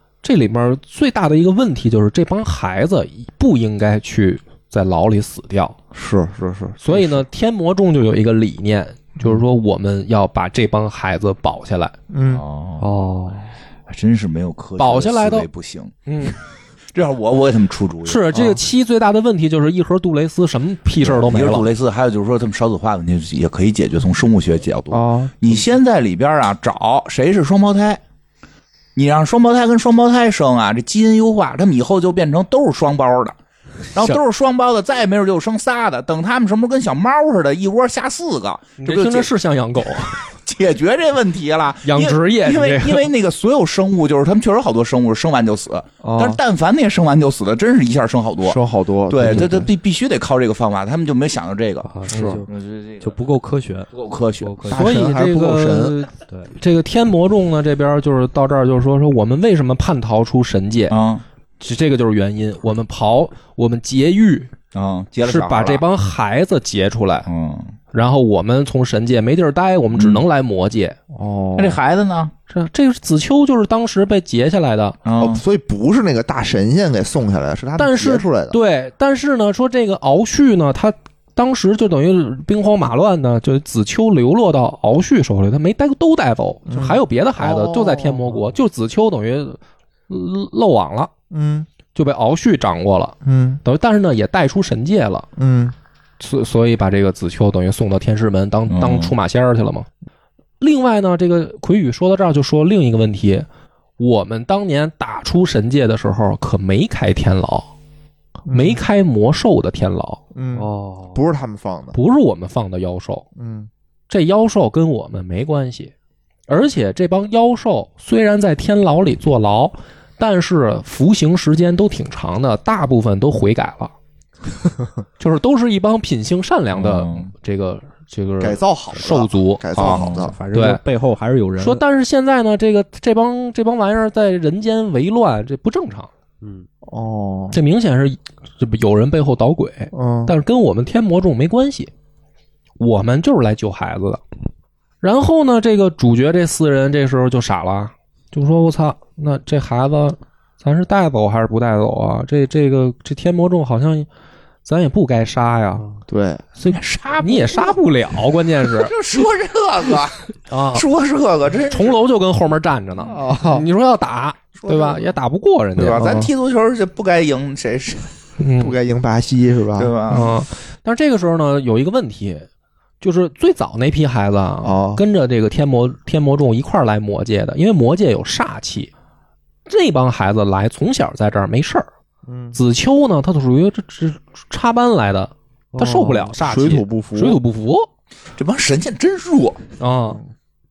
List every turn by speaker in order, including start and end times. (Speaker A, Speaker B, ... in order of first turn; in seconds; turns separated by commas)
Speaker A: 0.2-5.8, Speaker B: 5.9-7.2, Speaker A: 6.8-11.9, Speaker B: 12.1-12.4, Speaker C: 12.3-12.9, Speaker D: 12.8-13.5, Speaker C: 13.9-15.9, Speaker A: 14.8-15.5, Speaker A: 16.1-16.4, Speaker C: 16.9-18.3, Speaker A: 18.1-21.7, Speaker B: 18.3-18.6, Speaker C: 21.0-28.0, Speaker B: 24.9-25.6, Speaker C: 29.0-33.4, Speaker C: 33.9-39.3, Speaker A: 38.8-40.2, Speaker C: 40.1-51.9, Speaker A: 41.9-43.1, Speaker B: 46.0-46.4, Speaker B: 48.4-49.7, Speaker D: 51.9-52.5, Speaker B: 52.1-52.4, Speaker C: 52.5-53.2, Speaker D: 53.0-53.9, Speaker C: 53.9-54.6, Speaker D: 54.4-55.1, Speaker B: 54.7-56.0, Speaker A: 54.7-61.0, Speaker C: 60.9-61.2, Speaker A: 61.6-64.5, Speaker C: 64.7-65.8, Speaker A: 65.2-67.3, Speaker C: 67.3-67.7, Speaker A: 67.9-71.0, Speaker C: 70.0-70.2, Speaker B: 71.1-71.8, Speaker C: 71.6-72.3, Speaker A: 72.5-75.0, Speaker C: 75.0-75.4, Speaker B: 75.2-78.6, Speaker A: 77.8-91.1, Speaker B: 86.7-88.5, Speaker B: 91.3-91.7, Speaker A: 91.9-95.3, Speaker B: 93.2-93.6, Speaker B: 95.4-95.7, Speaker A: 96.2-99.9, Speaker C: 98.7-99.1, Speaker A: 100.6-103.5, Speaker A: 104.0-107.7, Speaker B: 108.5-108.8, Speaker A: 108.5-110.2, Speaker B: 110.3-112.0, Speaker D: 110.5-111.2, Speaker A: 111.9-113.3, Speaker B: 113.4-113.7, Speaker A: 114.1-115.9, Speaker A: 116.5-123.9, Speaker A: 125.2-129.8, Speaker C: 126.8-127.3, Speaker B: 128.4-130.4, Speaker C: 129.8-130.3, Speaker D: 129.8-131.8, Speaker A: 130.5-130.8, Speaker A: 131.6-136.1, Speaker D: 136.4-136.7, Speaker B: 136.9-137.6, Speaker A: 137.5-141.9, Speaker B: 139.9-140.3, Speaker A: 142.8-144.2, Speaker A: 145.0-154.1, Speaker A: 154.7-155.8, Speaker B: 156.1-156.4, Speaker A: 156.6-158.9, Speaker C: 156.7-157.8, Speaker C: 158.7-162.0, Speaker A: 160.5-160.8, Speaker A: 161.7-166.3, Speaker B: 163.1-163.7, Speaker C: 164.6-165.1, Speaker C: 165.8-168.1, Speaker B: 165.9-166.2, Speaker A: 168.4-168.8, Speaker B: 168.6-169.9, Speaker C: 169.8-170.3, Speaker A: 170.1-172.5, Speaker A: 173.0-178.9, Speaker B: 174.6-175.0, Speaker A: 179.7-181.9, Speaker B: 182.3-182.6, Speaker A: 182.5-187.9, Speaker B: 185.8-187.4, Speaker C: 188.4-189.6, Speaker A: 189.8-190.2